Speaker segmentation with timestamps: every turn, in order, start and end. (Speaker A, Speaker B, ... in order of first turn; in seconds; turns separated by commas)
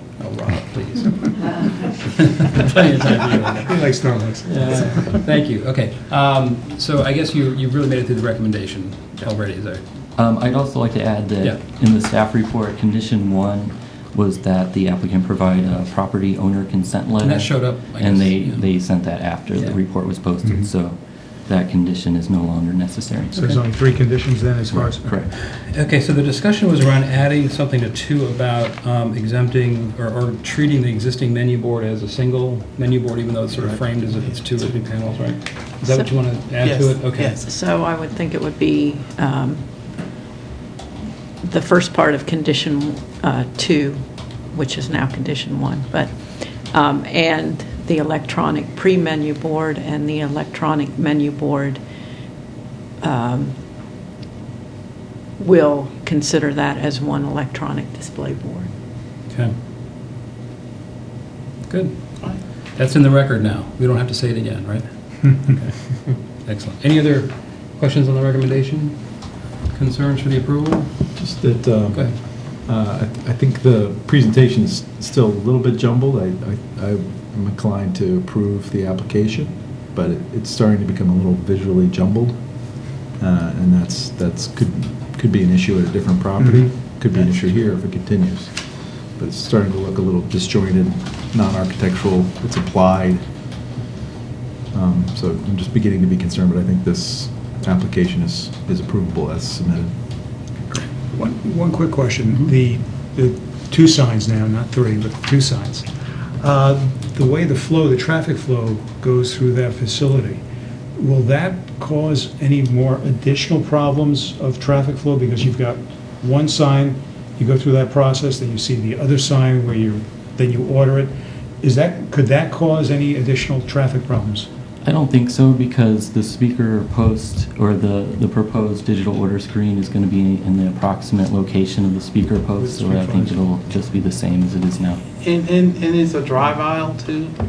Speaker A: 0.2-3.8, Speaker B: 3.7-5.2, Speaker A: 4.5-9.8, Speaker C: 10.2-23.4, Speaker A: 17.2-18.7, Speaker A: 19.6-19.8, Speaker B: 20.4-20.7, Speaker B: 23.3-25.2, Speaker A: 23.4-23.6, Speaker C: 24.7-25.4, Speaker A: 25.3-37.4, Speaker B: 33.5-33.8, Speaker D: 34.1-34.7, Speaker E: 35.8-36.3, Speaker D: 36.6-37.4, Speaker E: 37.4-39.7, Speaker E: 41.4-51.8, Speaker E: 53.0-53.6, Speaker E: 55.4-58.7, Speaker A: 61.7-71.0, Speaker D: 62.2-62.4, Speaker F: 71.1-93.2, Speaker A: 71.9-72.2, Speaker B: 86.4-87.3, Speaker F: 94.7-100.0, Speaker B: 100.7-105.9, Speaker B: 106.4-110.4, Speaker B: 111.0-124.5, Speaker C: 124.8-135.0, Speaker B: 132.6-133.4, Speaker D: 135.2-137.4